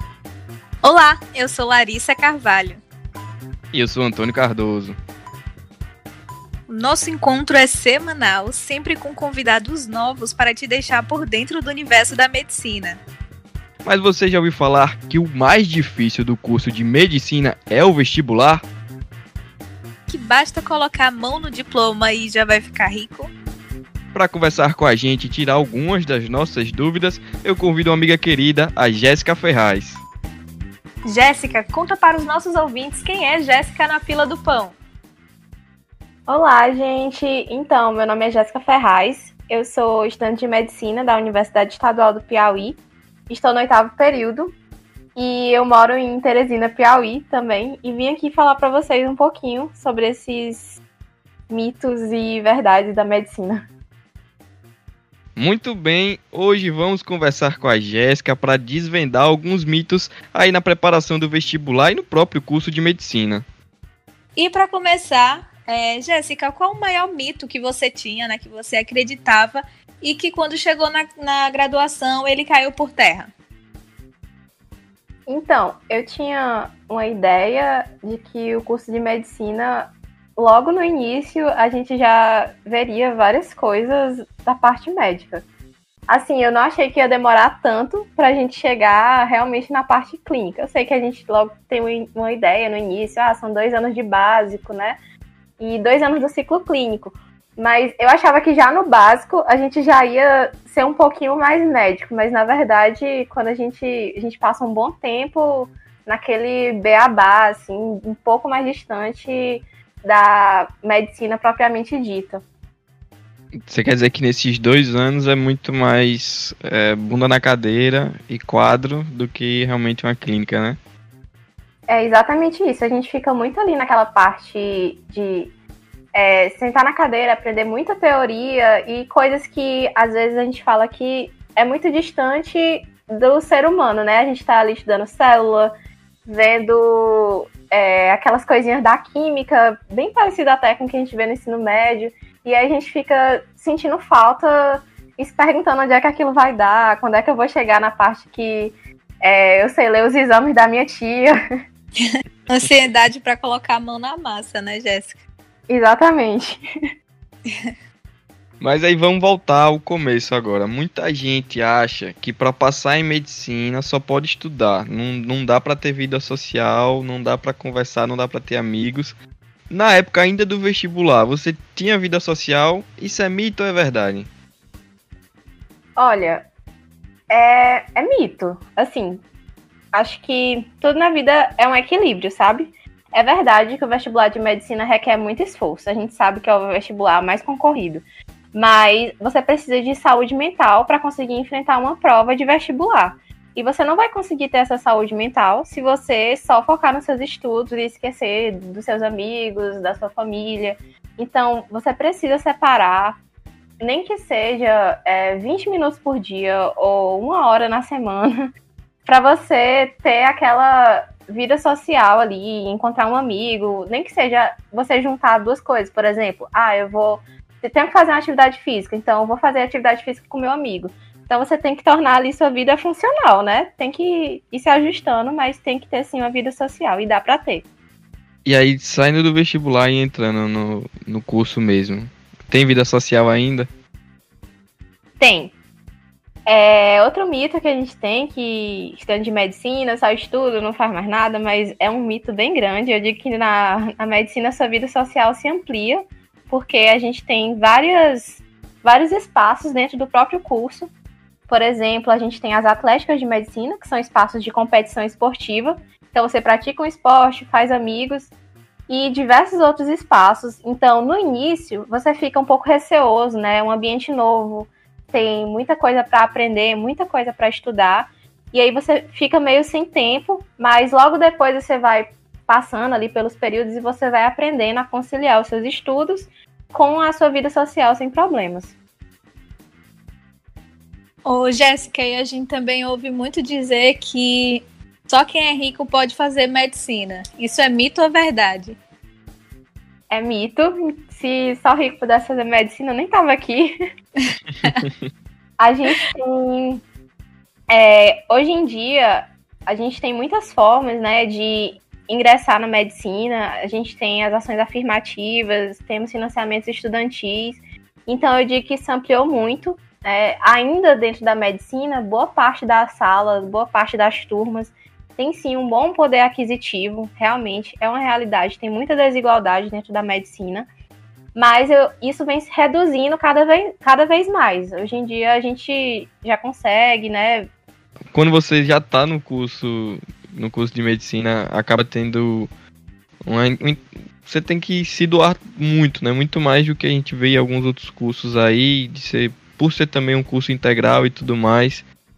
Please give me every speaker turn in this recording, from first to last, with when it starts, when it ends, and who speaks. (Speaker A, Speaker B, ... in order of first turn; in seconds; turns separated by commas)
Speaker A: 0.8-2.8, Speaker B: 3.7-5.0, Speaker A: 6.7-13.0, Speaker B: 13.8-18.6, Speaker A: 20.1-23.3, Speaker B: 24.1-30.0, Speaker A: 31.1-34.7, Speaker C: 36.3-44.5, Speaker C: 45.1-50.8, Speaker C: 51.5-53.6, Speaker B: 55.4-63.5, Speaker A: 64.4-73.3, Speaker C: 75.3-85.5, Speaker C: 86.1-95.0, Speaker C: 95.6-112.4, Speaker B: 113.7-120.8, Speaker C: 121.9-125.5, Speaker C: 126.1-135.7, Speaker C: 136.3-151.3, Speaker A: 152.0-155.2, Speaker C: 155.7-156.6, Speaker B: 158.6-169.2, Speaker B: 169.7-174.3, Speaker C: 176.0-176.5, Speaker C: 177.3-179.2, Speaker C: 179.9-203.2, Speaker C: 203.8-208.3, Speaker C: 209.1-227.7, Speaker B: 228.4-233.7, Speaker C: 235.2-235.6, Speaker C: 236.5-250.9, Speaker C: 251.5-258.3, Speaker C: 258.9-278.8, Speaker A: 281.2-288.8, Speaker C: 290.1-293.8, Speaker C: 295.6-296.8, Speaker C: 297.7-320.7, Speaker C: 321.4-327.5, Speaker B: 328.1-332.5, Speaker B: 333.2-341.9